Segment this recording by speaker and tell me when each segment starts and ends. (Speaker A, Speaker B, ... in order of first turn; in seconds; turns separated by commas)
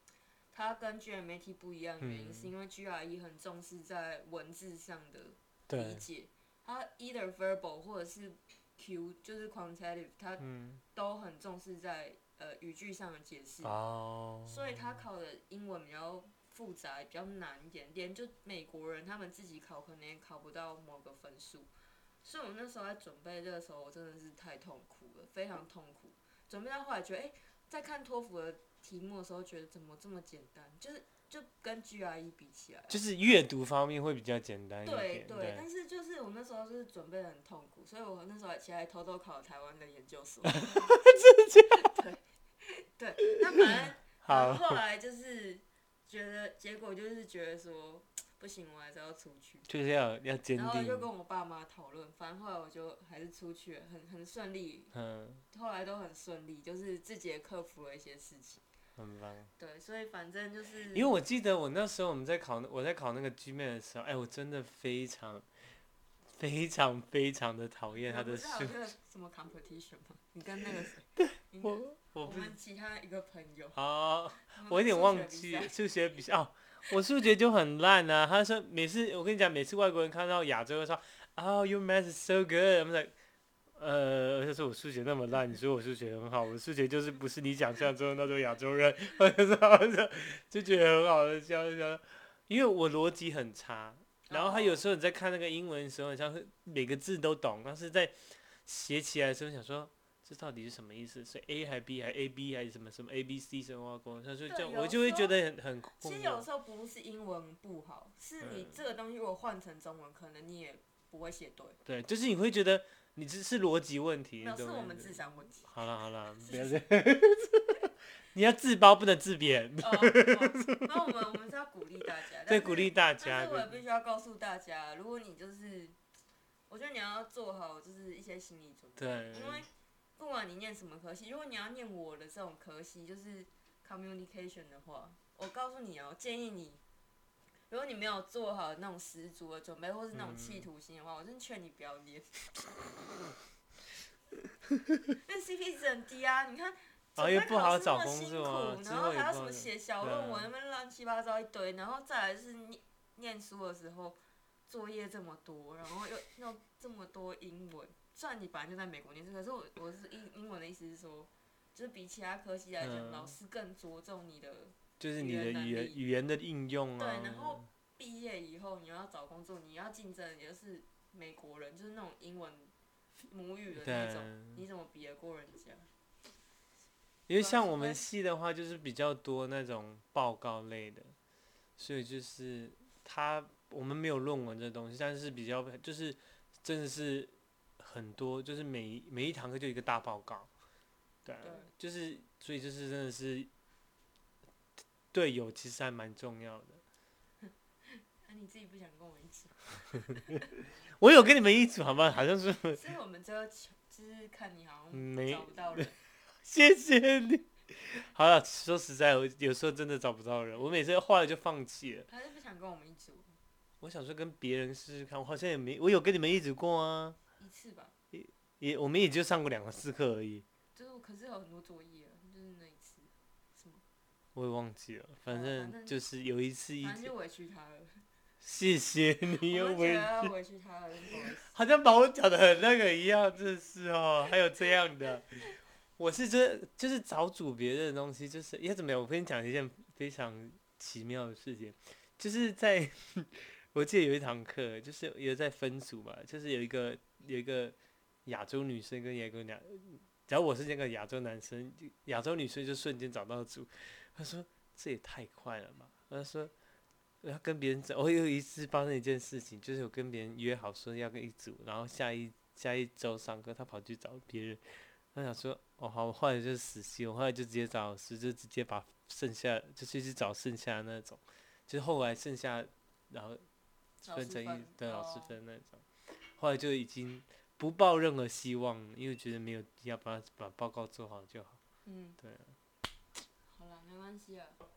Speaker A: 0.5-13.8, Speaker B: 2.0-2.5, Speaker B: 5.7-6.0, Speaker B: 10.4-10.8, Speaker B: 13.6-15.0, Speaker A: 14.5-21.7, Speaker A: 22.2-33.0, Speaker B: 32.9-35.6, Speaker A: 34.8-41.0, Speaker B: 40.5-41.9, Speaker A: 41.7-49.7, Speaker B: 43.6-44.8, Speaker B: 49.7-51.1, Speaker A: 50.5-54.9, Speaker B: 54.9-55.4, Speaker A: 55.5-58.6, Speaker B: 59.0-59.5, Speaker A: 59.6-61.2, Speaker B: 60.9-65.5, Speaker B: 66.3-68.8, Speaker A: 67.9-73.8, Speaker B: 71.2-72.6, Speaker B: 73.8-83.2, Speaker A: 74.5-75.8, Speaker B: 83.8-106.5, Speaker A: 94.3-94.8, Speaker A: 104.5-105.4, Speaker A: 106.0-111.8, Speaker B: 108.4-108.7, Speaker B: 111.8-120.9, Speaker A: 114.4-115.7, Speaker A: 116.4-116.9, Speaker A: 119.8-126.0, Speaker B: 122.5-123.8, Speaker A: 126.7-136.8, Speaker B: 129.0-129.7, Speaker A: 137.7-142.4, Speaker B: 140.1-140.7, Speaker A: 145.2-166.0, Speaker B: 147.2-150.5, Speaker B: 162.8-163.3, Speaker B: 165.0-167.7, Speaker A: 167.0-172.7, Speaker A: 173.3-175.9, Speaker B: 173.8-174.6, Speaker B: 177.3-181.2, Speaker A: 177.4-178.0, Speaker B: 181.8-190.5, Speaker B: 191.2-193.5, Speaker A: 191.4-191.7, Speaker B: 195.1-196.8, Speaker A: 197.4-200.6, Speaker B: 201.0-202.8, Speaker A: 202.7-206.0, Speaker B: 204.9-205.9, Speaker B: 206.4-212.1, Speaker A: 212.1-213.4, Speaker B: 213.8-217.2, Speaker A: 217.4-217.9, Speaker B: 218.1-220.5, Speaker A: 220.8-223.8, Speaker B: 224.3-227.1, Speaker A: 225.3-226.0, Speaker A: 226.8-228.0, Speaker B: 228.4-230.3, Speaker A: 229.4-231.5, Speaker B: 231.1-256.5, Speaker B: 257.2-273.4, Speaker B: 274.0-281.6, Speaker A: 274.1-275.4, Speaker A: 281.9-282.2, Speaker B: 282.2-282.6, Speaker A: 283.5-284.6